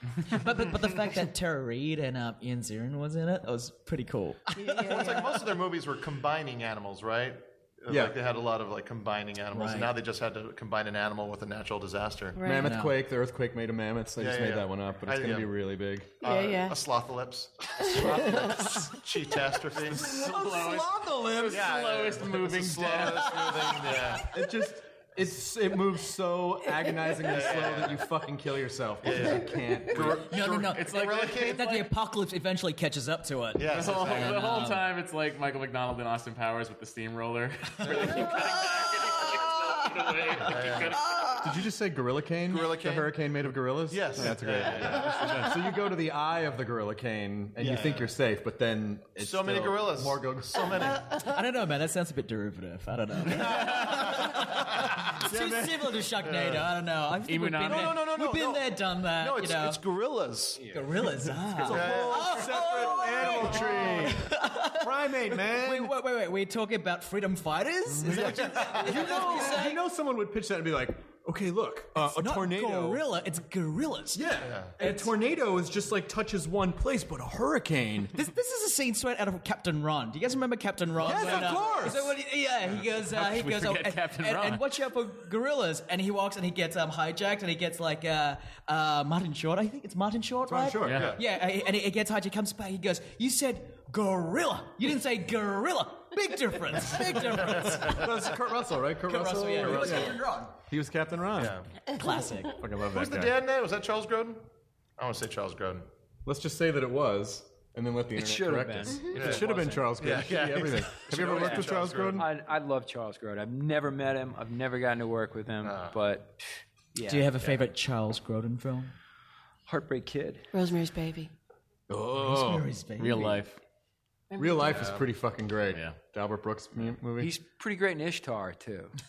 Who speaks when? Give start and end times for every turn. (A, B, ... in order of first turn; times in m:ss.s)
0:00.3-0:05.4 A
0:04.6-0:05.2 B
0:04.8-0:12.4 C
0:07.9-0:08.2 D
0:09.5-0:09.9 A
0:12.4-0:12.8 B
0:12.4-0:16.2 D
0:12.5-0:13.0 A
0:14.2-0:15.5 C
0:16.2-0:20.3 C
0:16.2-0:16.8 B
0:17.8-0:18.8 B
0:19.9-0:24.0 E
0:20.1-0:21.6 D
0:21.4-0:24.4 C
0:24.1-0:30.7 D
0:27.2-0:28.1 C
0:29.0-0:31.6 C
0:30.1-0:34.8 A
0:30.5-0:31.9 E
0:33.6-0:34.6 C
0:33.7-0:41.5 E
0:37.8-0:40.1 A
0:40.4-0:41.0 C
0:41.0-0:41.3 A
0:41.4-0:51.0 D
0:42.4-0:43.1 C
0:43.9-0:45.5 C
0:44.3-0:45.5 E
0:47.6-0:48.1 C
0:49.2-0:51.2 C
0:51.2-0:59.8 A
0:53.3-0:53.7 C
0:54.3-0:56.0 D
0:56.2-0:56.6 C
0:57.2-0:58.1 E
0:57.6-1:00.8 C
1:00.7-1:09.8 A
1:01.5-1:05.9 D
1:01.6-1:04.0 C
1:08.0-1:13.0 D
1:08.1-1:09.4 C
1:12.0-1:15.1 A
1:14.1-1:18.1 D
1:14.4-1:14.8 C
1:18.1-1:38.4 A
1:21.0-1:22.2 D
1:23.0-1:24.7 E
1:30.5-1:31.1 D
1:30.8-1:31.1 E
1:30.9-1:31.2 C
1:37.3-1:41.6 D
1:39.0-1:40.5 A
1:39.7-1:40.0 C
1:41.3-1:41.7 C
1:41.9-1:42.6 A
1:42.5-1:43.4 D
1:42.8-1:45.9 C
1:46.2-1:52.3 D
1:48.1-1:50.3 F
1:49.1-1:52.3 C
1:51.1-1:57.3 F
1:55.6-1:56.0 C
1:57.0-1:58.9 A
1:59.7-2:00.5 F
2:00.5-2:01.3 B
2:01.9-2:02.7 D
2:02.1-2:03.4 A
2:03.0-2:03.6 E
2:04.3-2:04.9 B
2:04.4-2:07.3 D
2:04.7-2:05.1 C
2:05.7-2:06.0 E
2:07.2-2:08.9 F